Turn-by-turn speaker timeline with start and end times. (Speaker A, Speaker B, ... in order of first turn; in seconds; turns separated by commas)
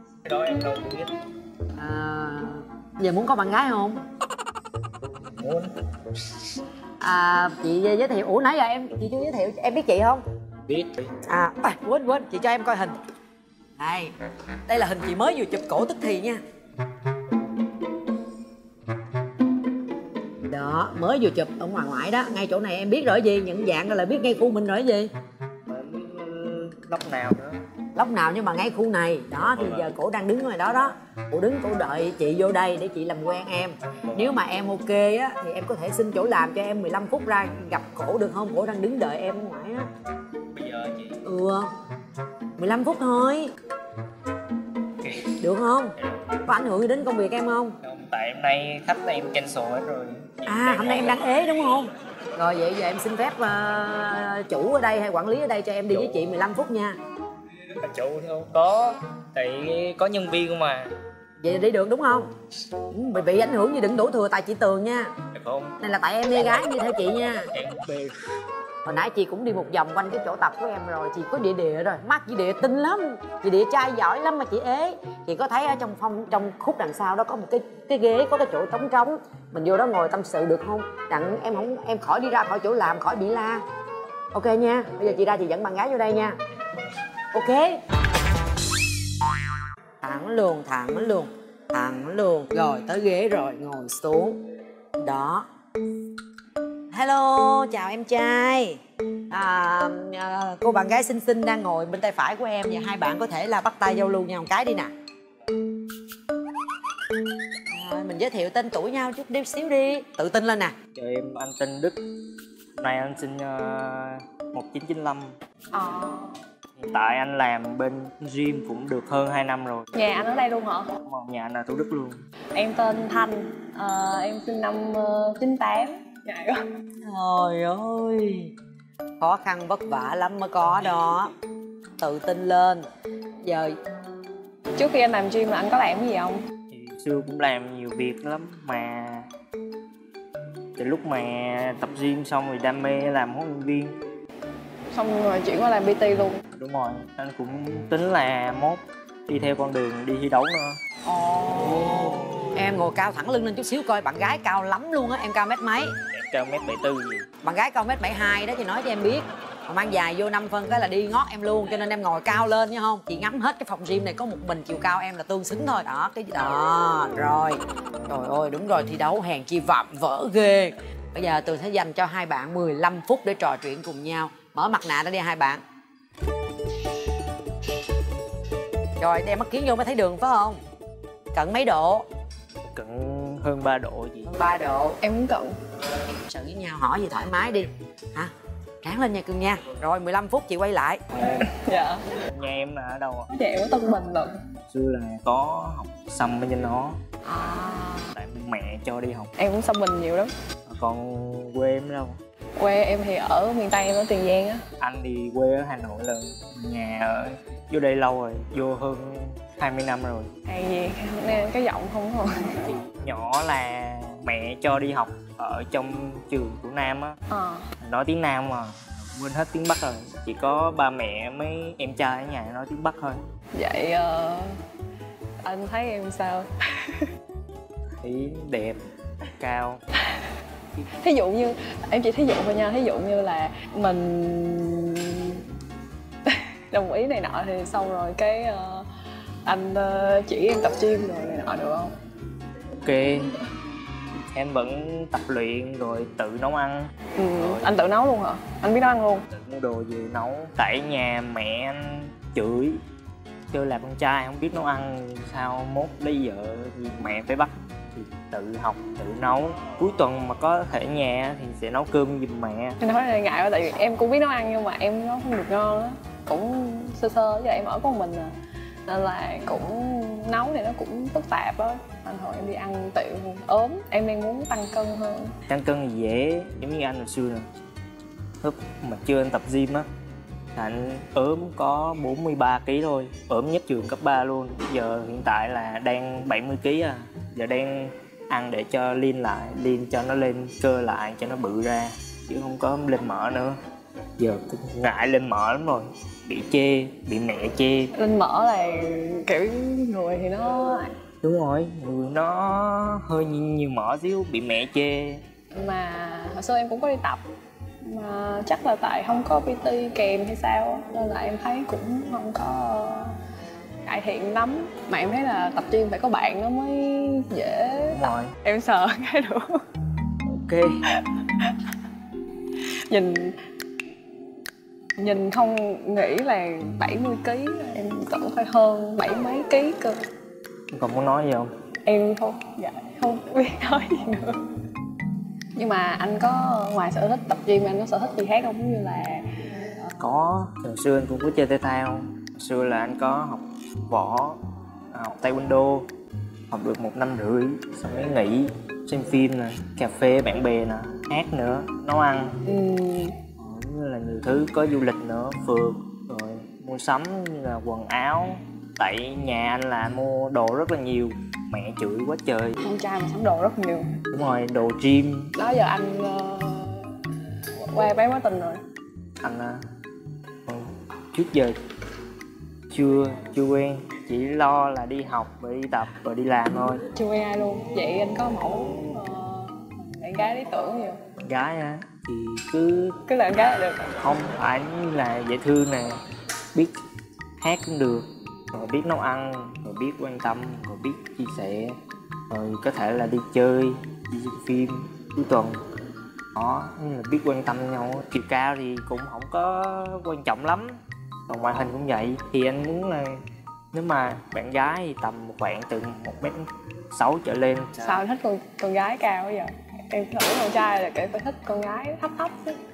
Speaker A: 0.2-1.1, Speaker B: 1.8-4.0, Speaker A: 5.2-5.7, Speaker B: 7.0-10.2, Speaker A: 10.7-11.1, Speaker B: 11.2-13.0, Speaker B: 13.8-14.1, Speaker B: 14.7-16.4, Speaker B: 20.5-25.1, Speaker A: 25.7-27.6, Speaker B: 27.9-39.9, Speaker A: 29.4-29.9, Speaker A: 34.1-34.4, Speaker A: 40.5-41.2, Speaker B: 41.2-41.7, Speaker B: 42.6-43.5, Speaker A: 45.0-45.3, Speaker B: 45.4-45.9, Speaker A: 46.0-46.5, Speaker B: 46.5-47.8, Speaker A: 47.8-51.8, Speaker B: 50.5-57.0, Speaker A: 55.9-56.3, Speaker A: 57.7-60.9, Speaker B: 61.4-62.3, Speaker B: 62.9-65.2, Speaker A: 65.3-65.8, Speaker B: 65.8-67.5, Speaker A: 67.5-68.1, Speaker B: 68.8-83.6, Speaker B: 84.3-86.4, Speaker B: 87.3-87.8, Speaker B: 90.0-94.4, Speaker B: 95.0-95.5, Speaker B: 96.9-104.9, Speaker B: 107.7-110.8, Speaker A: 110.9-112.0, Speaker A: 112.8-115.3, Speaker C: 115.7-116.4, Speaker A: 116.8-119.9, Speaker C: 119.9-121.0, Speaker A: 121.0-122.2, Speaker C: 122.5-126.6, Speaker B: 127.0-128.5, Speaker B: 129.2-131.3, Speaker B: 132.0-132.8, Speaker B: 133.4-133.8, Speaker C: 134.8-136.4, Speaker A: 136.7-139.3, Speaker A: 140.8-143.9, Speaker C: 144.9-146.4, Speaker A: 146.5-150.8, Speaker B: 151.0-155.9, Speaker A: 151.8-152.3, Speaker A: 156.1-157.2, Speaker B: 157.4-175.6, Speaker B: 179.0-180.6, Speaker B: 181.3-182.1, Speaker A: 182.7-184.3, Speaker B: 184.3-185.0, Speaker C: 185.0-185.6, Speaker B: 186.2-188.3, Speaker B: 188.8-191.0, Speaker A: 191.2-191.4, Speaker C: 191.2-192.1, Speaker A: 192.2-193.3, Speaker C: 193.3-194.4, Speaker A: 194.7-197.0, Speaker C: 197.2-198.1, Speaker A: 198.1-199.3, Speaker C: 199.4-200.3, Speaker A: 200.7-202.2, Speaker C: 202.6-204.6, Speaker A: 204.8-210.3, Speaker C: 210.5-212.7, Speaker A: 212.6-217.2, Speaker C: 217.3-217.7, Speaker A: 217.8-223.2, Speaker C: 223.5-224.6, Speaker C: 225.4-227.1, Speaker A: 228.0-228.8, Speaker A: 229.4-229.8, Speaker C: 231.0-235.4, Speaker C: 236.2-238.9, Speaker C: 239.4-241.9, Speaker A: 242.8-243.4, Speaker A: 244.2-247.7, Speaker C: 247.1-249.3, Speaker A: 249.3-252.8, Speaker A: 253.5-262.8, Speaker C: 262.8-268.3, Speaker C: 268.9-275.3, Speaker A: 275.5-277.4, Speaker A: 278.4-279.9, Speaker A: 280.6-293.6, Speaker A: 294.2-297.9, Speaker C: 297.9-300.9, Speaker A: 301.2-305.2, Speaker C: 305.5-307.2, Speaker C: 307.8-313.2, Speaker C: 313.8-319.6, Speaker A: 317.9-318.3, Speaker A: 320.3-320.8, Speaker C: 320.9-321.6, Speaker C: 322.9-323.4, Speaker C: 325.0-330.0, Speaker A: 330.7-331.5, Speaker C: 331.8-334.4, Speaker C: 335.6-339.4, Speaker A: 340.0-344.4, Speaker A: 344.9-345.9, Speaker A: 346.5-352.4, Speaker C: 352.4-353.2, Speaker A: 353.4-362.6, Speaker C: 362.6-364.0, Speaker A: 364.1-365.3, Speaker C: 365.4-366.9, Speaker C: 367.5-368.6, Speaker A: 369.2-369.6, Speaker A: 370.5-371.6, Speaker A: 372.7-376.8, Speaker C: 376.9-381.0, Speaker A: 381.2-383.0, Speaker C: 383.1-384.0, Speaker A: 384.0-386.0, Speaker A: 387.4-391.8, Speaker A: 392.3-395.6, Speaker A: 396.3-407.9, Speaker C: 407.8-412.6